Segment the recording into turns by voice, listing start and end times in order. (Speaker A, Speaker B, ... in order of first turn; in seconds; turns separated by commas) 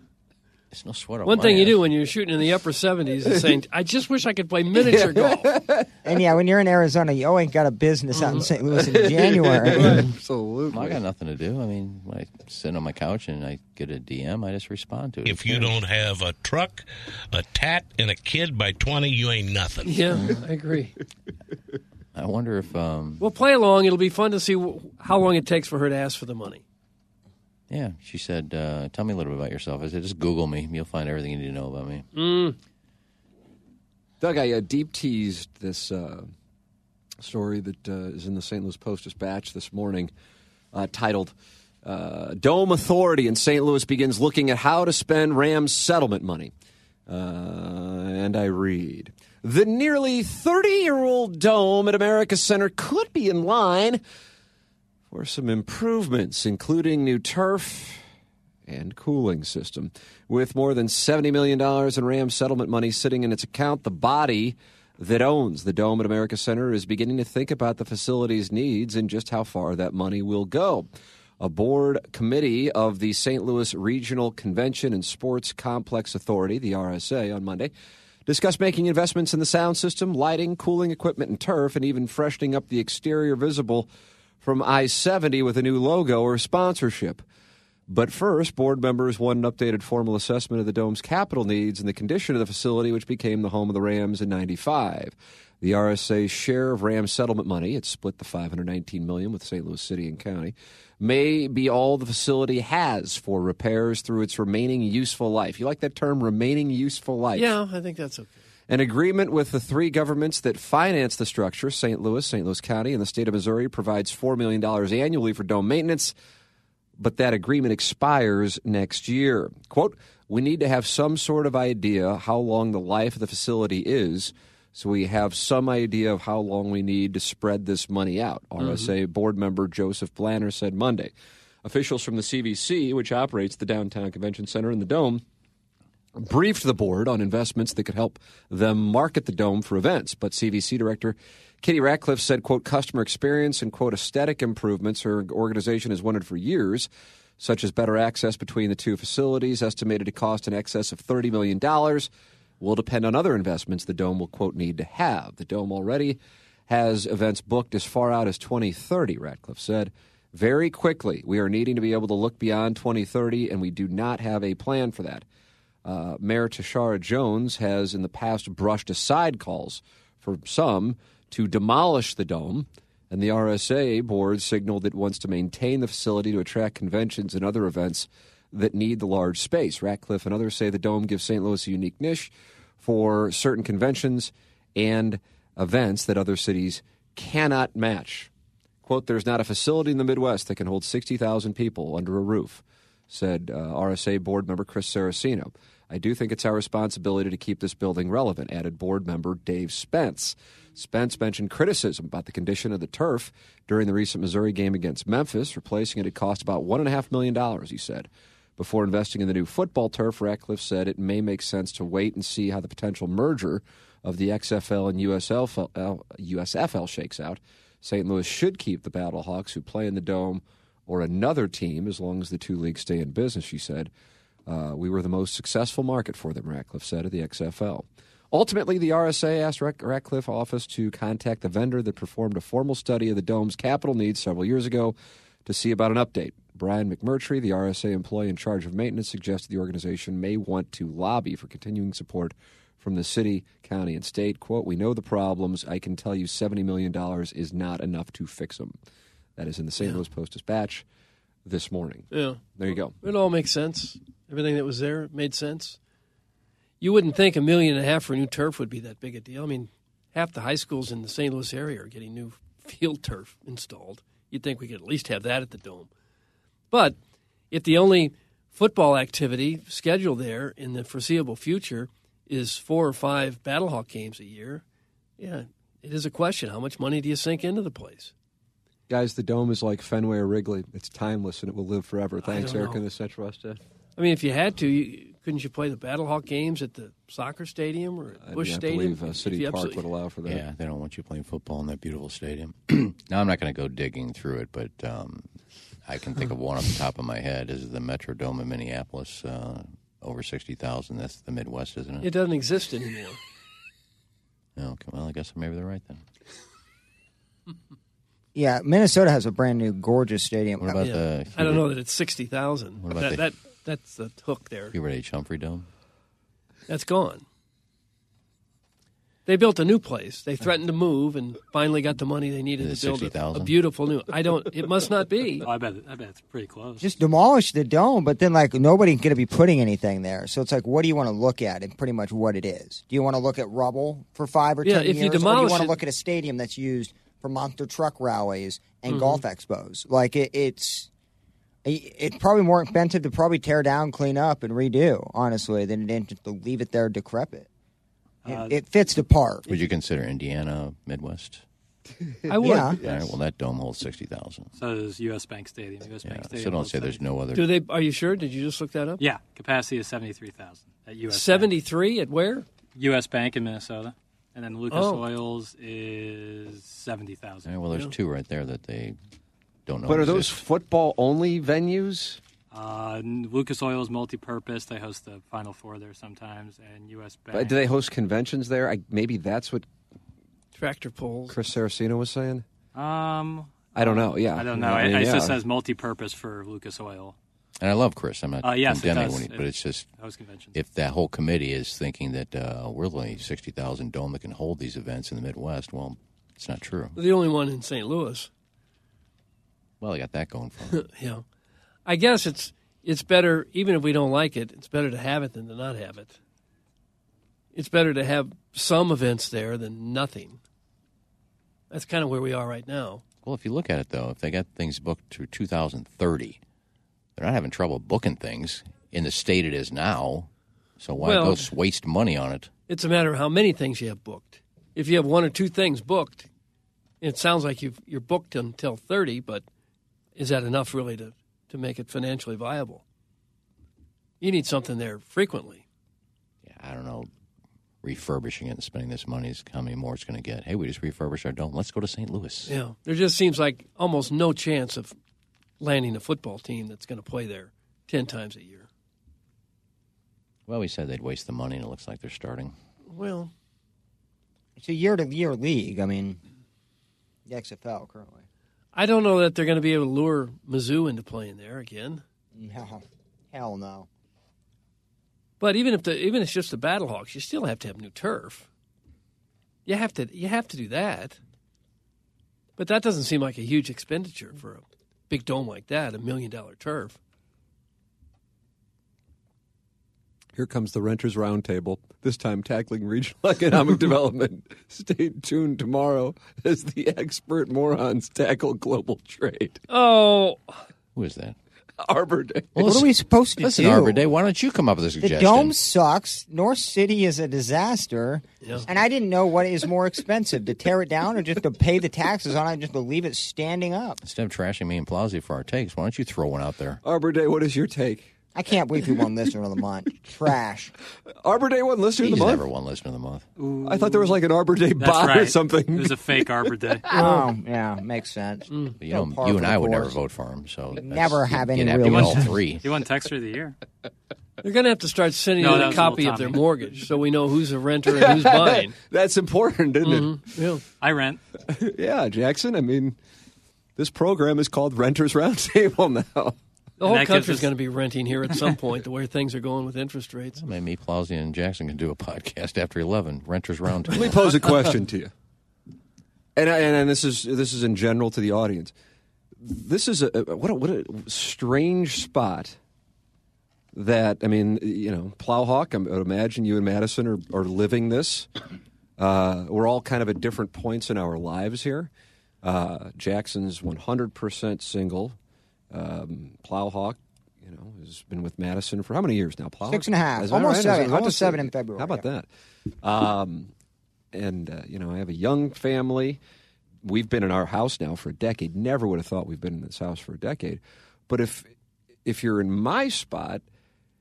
Speaker A: 0.7-1.8, Speaker B: 1.3-5.5, Speaker C: 4.8-5.9, Speaker D: 6.0-10.1, Speaker B: 8.1-8.5, Speaker C: 8.8-11.0, Speaker A: 10.7-15.8, Speaker E: 15.2-20.1, Speaker B: 19.8-21.0, Speaker A: 22.1-23.2, Speaker B: 23.2-26.6, Speaker A: 27.7-32.1, Speaker B: 32.1-32.6, Speaker C: 34.2-36.3, Speaker C: 37.2-40.1, Speaker C: 40.7-46.5, Speaker C: 47.1-54.0, Speaker C: 55.1-58.0, Speaker C: 58.7-77.7, Speaker C: 78.3-83.9, Speaker C: 84.4-87.2, Speaker C: 87.9-107.5, Speaker B: 107.3-108.4, Speaker C: 108.7-116.1, Speaker C: 117.0-131.1, Speaker B: 128.6-128.9, Speaker C: 131.6-135.2, Speaker C: 136.2-165.2, Speaker C: 165.8-188.3, Speaker C: 188.8-223.9, Speaker C: 224.5-248.8, Speaker C: 249.4-250.8, Speaker C: 251.4-253.0, Speaker B: 252.1-252.4, Speaker B: 253.0-255.8, Speaker B: 256.8-265.9, Speaker B: 266.7-267.0, Speaker B: 267.5-274.6, Speaker B: 275.2-278.1, Speaker C: 278.9-283.6, Speaker B: 282.2-282.8, Speaker B: 284.0-289.9, Speaker C: 288.2-290.4, Speaker A: 290.3-295.3, Speaker A: 295.9-302.1, Speaker B: 302.0-303.2, Speaker A: 304.6-306.0, Speaker D: 308.4-310.9, Speaker A: 310.6-311.7, Speaker B: 310.8-314.8, Speaker A: 312.8-313.2, Speaker A: 314.7-315.7, Speaker B: 316.7-317.2, Speaker B: 319.3-325.5, Speaker A: 322.6-323.6, Speaker F: 325.4-326.9, Speaker D: 326.8-340.9, Speaker B: 334.6-335.8, Speaker B: 338.9-339.2, Speaker D: 341.6-347.5, Speaker F: 348.2-348.6, Speaker D: 348.3-349.5, Speaker A: 349.5-351.4, Speaker B: 352.3-352.8, Speaker D: 352.4-352.8, Speaker A: 352.8-354.5, Speaker C: 352.8-353.1, Speaker F: 354.6-357.0, Speaker A: 356.0-357.5, Speaker B: 357.3-359.0, Speaker F: 359.0-361.5, Speaker B: 361.1-362.5, Speaker F: 362.8-367.5, Speaker B: 364.7-365.0, Speaker A: 367.5-369.0, Speaker A: 369.7-370.4, Speaker C: 369.9-372.2, Speaker F: 372.5-377.6, Speaker C: 377.3-379.7, Speaker B: 380.6-381.4, Speaker C: 381.3-382.4, Speaker F: 382.8-387.2, Speaker C: 383.7-385.4, Speaker A: 387.6-389.9, Speaker F: 388.4-390.6, Speaker A: 390.5-397.0, Speaker B: 397.0-398.3, Speaker A: 399.8-400.8, Speaker B: 400.7-401.2, Speaker B: 401.9-406.2, Speaker B: 407.6-410.4, Speaker B: 411.7-413.0, Speaker A: 413.2-416.4, Speaker A: 417.2-422.5, Speaker B: 421.0-421.5, Speaker B: 422.7-426.3, Speaker B: 427.0-429.5, Speaker B: 430.2-432.8, Speaker B: 434.2-435.6, Speaker A: 436.4-437.1, Speaker A: 437.8-442.5, Speaker B: 442.5-445.0, Speaker B: 445.6-448.7, Speaker A: 450.5-452.6, Speaker B: 452.9-453.3, Speaker D: 454.6-456.2, Speaker D: 457.3-458.2, Speaker B: 458.8-462.0, Speaker D: 462.4-463.9, Speaker B: 465.4-468.5, Speaker B: 469.7-471.2, Speaker B: 472.6-477.0, Speaker C: 480.4-489.6, Speaker B: 489.7-490.6, Speaker A: 490.9-491.4, Speaker C: 491.8-492.6, Speaker A: 492.6-495.6, Speaker D: 492.6-494.0, Speaker D: 495.0-504.0, Speaker A: 504.0-506.8, Speaker C: 506.8-508.1, Speaker D: 508.3-510.7, Speaker C: 511.2-512.5, Speaker A: 512.0-513.3, Speaker F: 513.4-514.2, Speaker C: 513.6-516.3, Speaker F: 514.8-517.0, Speaker D: 516.9-520.0, Speaker B: 517.0-517.2, Speaker A: 518.8-522.6, Speaker D: 520.8-522.4, Speaker F: 521.8-523.6, Speaker B: 524.4-528.8, Speaker F: 525.4-526.4, Speaker C: 527.9-530.2, Speaker B: 529.8-530.6, Speaker F: 530.8-531.2, Speaker C: 531.5-533.0, Speaker C: 533.8-536.4, Speaker B: 536.8-540.4, Speaker F: 536.8-537.5, Speaker A: 540.4-544.4, Speaker C: 543.9-545.1, Speaker C: 546.4-548.7, Speaker C: 549.4-552.6, Speaker C: 553.7-558.3, Speaker C: 559.0-561.9, Speaker C: 562.4-565.2, Speaker C: 565.7-572.3, Speaker D: 569.7-572.1, Speaker C: 572.8-573.5, Speaker C: 574.1-576.2, Speaker C: 576.8-581.5, Speaker C: 582.0-583.4